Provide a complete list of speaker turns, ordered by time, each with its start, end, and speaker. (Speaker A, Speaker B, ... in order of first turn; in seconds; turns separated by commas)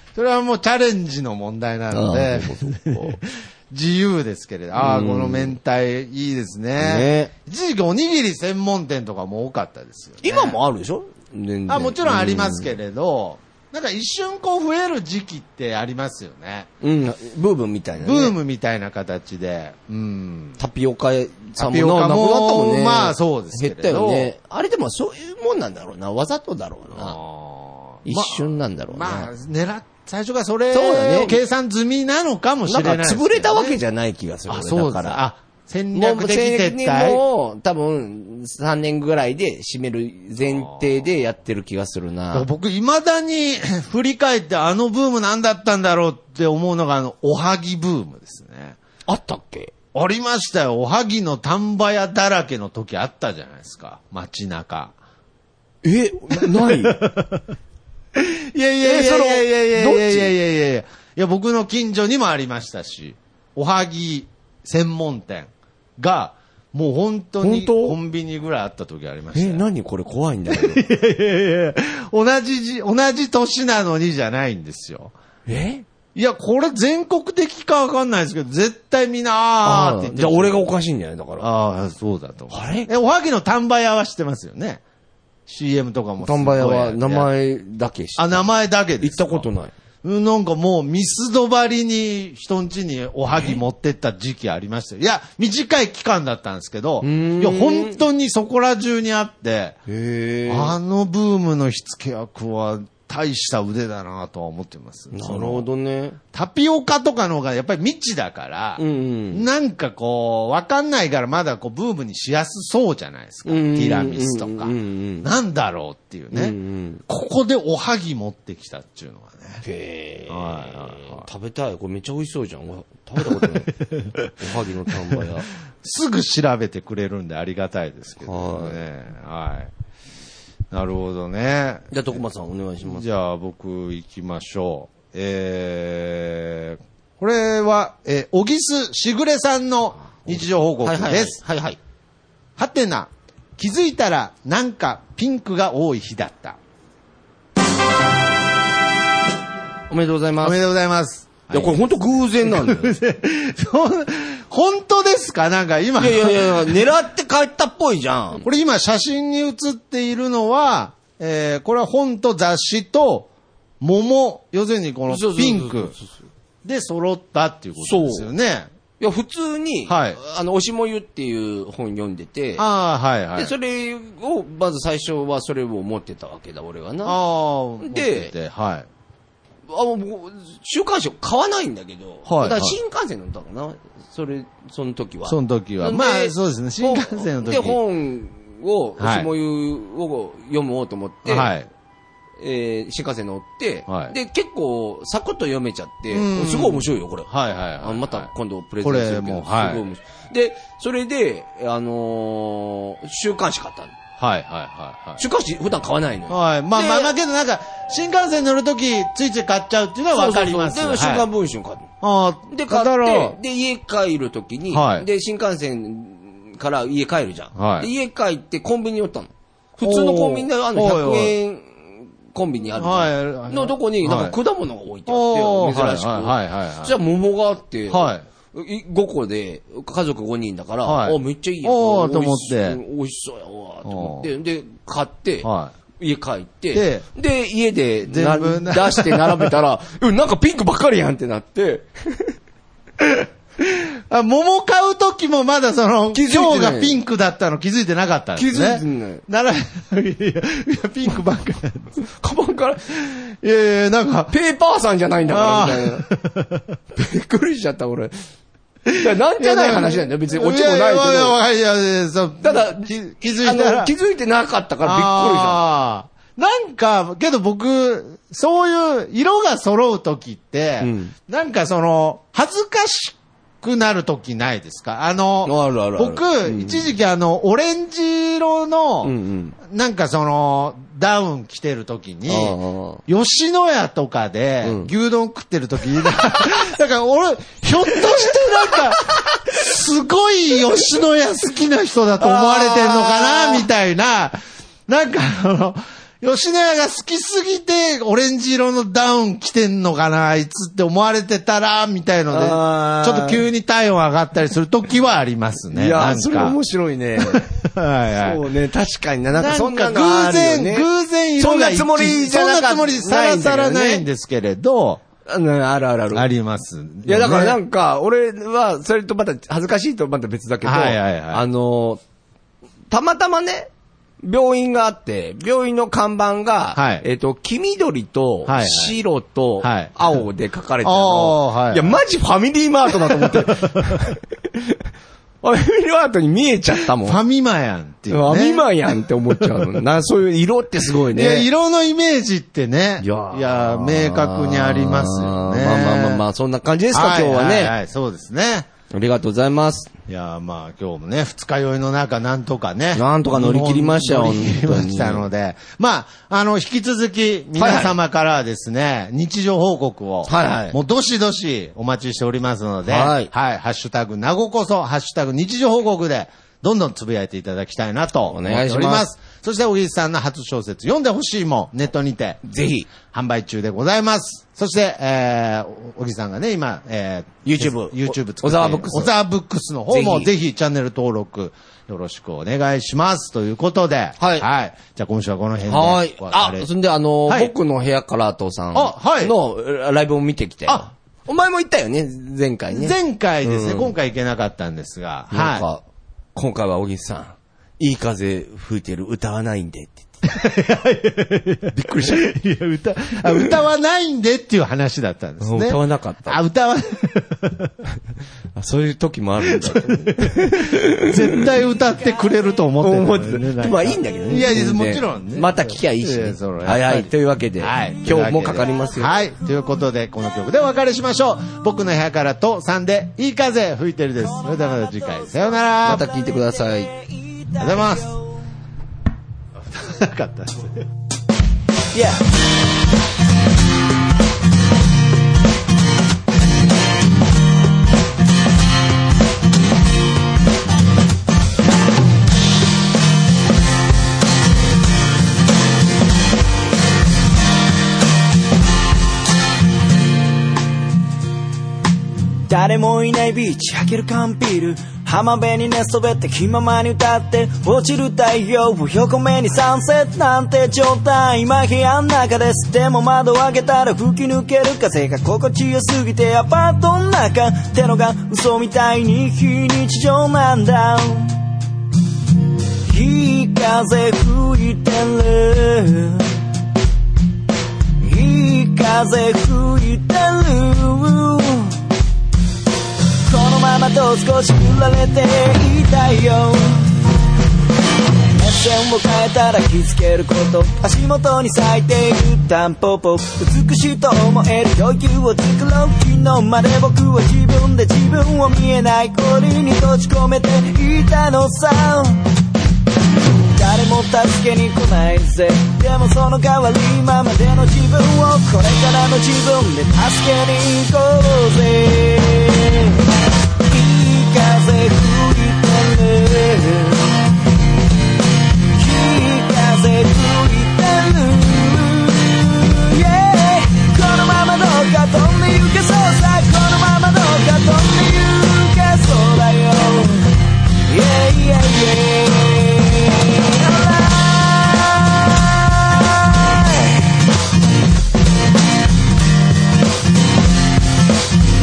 Speaker A: 0.1-10.6, Speaker B: 1.9-3.2, Speaker B: 4.7-5.6, Speaker B: 6.8-7.3, Speaker B: 10.2-12.7, Speaker A: 11.7-16.7, Speaker B: 16.8-18.4, Speaker A: 18.0-20.6, Speaker B: 20.6-27.2, Speaker A: 21.6-24.3, Speaker A: 27.0-33.8, Speaker B: 28.1-29.3, Speaker B: 30.7-31.4, Speaker B: 32.7-35.2, Speaker A: 34.5-37.2, Speaker B: 35.9-42.5, Speaker A: 40.4-41.0, Speaker A: 42.3-48.8, Speaker B: 49.1-49.7, Speaker A: 49.9-55.0, Speaker B: 55.8-57.0, Speaker A: 56.4-57.4, Speaker A: 58.1-69.6, Speaker B: 58.8-60.3, Speaker B: 67.4-68.0, Speaker B: 69.3-70.8, Speaker A: 70.5-75.1, Speaker B: 75.5-75.8, Speaker A: 76.2-80.6, Speaker B: 79.6-81.5, Speaker A: 81.4-84.8, Speaker B: 82.5-82.9, Speaker A: 85.5-87.3, Speaker B: 86.2-88.5, Speaker A: 88.2-89.5, Speaker B: 89.0-89.7, Speaker A: 90.0-99.8, Speaker B: 97.0-98.0, Speaker B: 99.9-100.8, Speaker A: 100.5-105.7, Speaker B: 105.1-106.2, Speaker A: 106.3-119.6, Speaker B: 108.8-109.5, Speaker B: 113.5-115.3, Speaker B: 116.3-117.0, Speaker B: 119.6-123.7, Speaker A: 120.3-121.3, Speaker A: 123.2-124.3, Speaker B: 124.4-125.5, Speaker A: 125.8-129.7, Speaker B: 128.2-128.8, Speaker A: 130.7-132.2, Speaker B: 131.9-133.1, Speaker A: 132.9-141.4, Speaker B: 140.3-141.8, Speaker A: 142.6-146.6, Speaker B: 149.9-150.6, Speaker A: 150.4-156.9, Speaker B: 151.5-152.9, Speaker B: 156.0-158.4, Speaker A: 158.4-163.3, Speaker A: 163.8-165.9, Speaker B: 165.1-166.2, Speaker A: 166.7-168.7, Speaker B: 167.8-168.3, Speaker B: 169.0-172.7, Speaker A: 169.9-170.2, Speaker A: 172.6-173.5, Speaker B: 173.3-177.2, Speaker A: 177.0-178.9, Speaker B: 177.8-178.3, Speaker B: 179.7-191.5, Speaker A: 182.2-182.8, Speaker A: 185.3-187.8, Speaker A: 189.0-189.3, Speaker A: 191.2-191.7, Speaker B: 192.4-197.3, Speaker A: 193.9-194.1, Speaker A: 196.1-198.3, Speaker B: 197.8-203.9, Speaker A: 198.8-199.8, Speaker A: 204.2-205.2, Speaker B: 205.2-207.1, Speaker A: 206.3-211.3, Speaker B: 210.1-211.9, Speaker A: 212.0-213.4, Speaker B: 212.5-242.4, Speaker A: 214.7-215.1, Speaker A: 217.6-217.9, Speaker A: 219.8-221.4, Speaker A: 222.8-224.4, Speaker A: 225.1-227.0, Speaker A: 227.9-228.2, Speaker A: 230.8-232.8, Speaker A: 233.8-234.3, Speaker A: 235.4-235.7, Speaker A: 236.7-237.1, Speaker A: 238.1-239.5, Speaker A: 243.0-252.0, Speaker B: 246.1-247.0, Speaker B: 248.4-249.2, Speaker B: 252.1-252.8, Speaker A: 252.9-254.3, Speaker B: 254.3-256.1, Speaker A: 255.3-256.8, Speaker B: 256.9-258.2, Speaker A: 258.9-263.9, Speaker B: 259.0-261.4, Speaker B: 262.4-265.6, Speaker A: 264.8-306.6, Speaker B: 270.8-271.1, Speaker B: 275.4-276.8, Speaker B: 279.0-279.6, Speaker B: 282.3-283.0, Speaker B: 284.6-284.9, Speaker B: 292.2-293.7, Speaker B: 302.3-303.5, Speaker B: 305.7-307.4, Speaker A: 307.2-308.4, Speaker B: 308.2-310.9, Speaker A: 309.4-315.0, Speaker B: 311.4-314.1, Speaker B: 315.3-316.3, Speaker A: 316.1-317.6, Speaker B: 317.1-322.0, Speaker A: 320.6-321.4, Speaker B: 322.9-334.8, Speaker A: 326.8-327.1, Speaker A: 328.5-329.0, Speaker A: 329.6-330.2, Speaker A: 330.8-332.0, Speaker A: 332.9-334.0, Speaker B: 335.4-337.2, Speaker A: 337.0-339.8, Speaker B: 338.1-341.5, Speaker A: 341.1-346.2, Speaker B: 343.0-347.8, Speaker A: 346.9-348.7, Speaker B: 348.9-349.9, Speaker A: 350.1-372.4, Speaker B: 352.9-355.3, Speaker B: 357.6-358.0, Speaker B: 360.3-360.8, Speaker B: 362.9-363.3, Speaker B: 368.3-369.1, Speaker B: 372.4-372.9, Speaker A: 373.0-386.7, Speaker B: 377.4-379.1, Speaker B: 379.9-380.3, Speaker B: 384.2-384.5, Speaker B: 385.7-393.9, Speaker A: 387.3-387.5, Speaker A: 388.7-389.4, Speaker A: 392.7-395.7, Speaker B: 395.3-395.8, Speaker B: 396.4-400.2, Speaker A: 400.2-407.8, Speaker B: 401.7-402.3, Speaker B: 403.3-403.5, Speaker B: 405.4-406.4, Speaker B: 408.6-411.5, Speaker A: 409.5-426.1, Speaker B: 412.8-419.1, Speaker C: 418.2-419.6, Speaker C: 424.2-428.3, Speaker B: 425.9-426.9, Speaker A: 427.6-428.2, Speaker A: 429.7-430.8, Speaker C: 431.9-432.2, Speaker C: 452.5-471.4, Speaker C: 472.9-476.4, Speaker C: 478.0-481.9, Speaker C: 483.2-487.0, Speaker C: 488.4-502.3, Speaker C: 503.4-513.0, Speaker C: 513.7-517.2, Speaker C: 518.8-537.0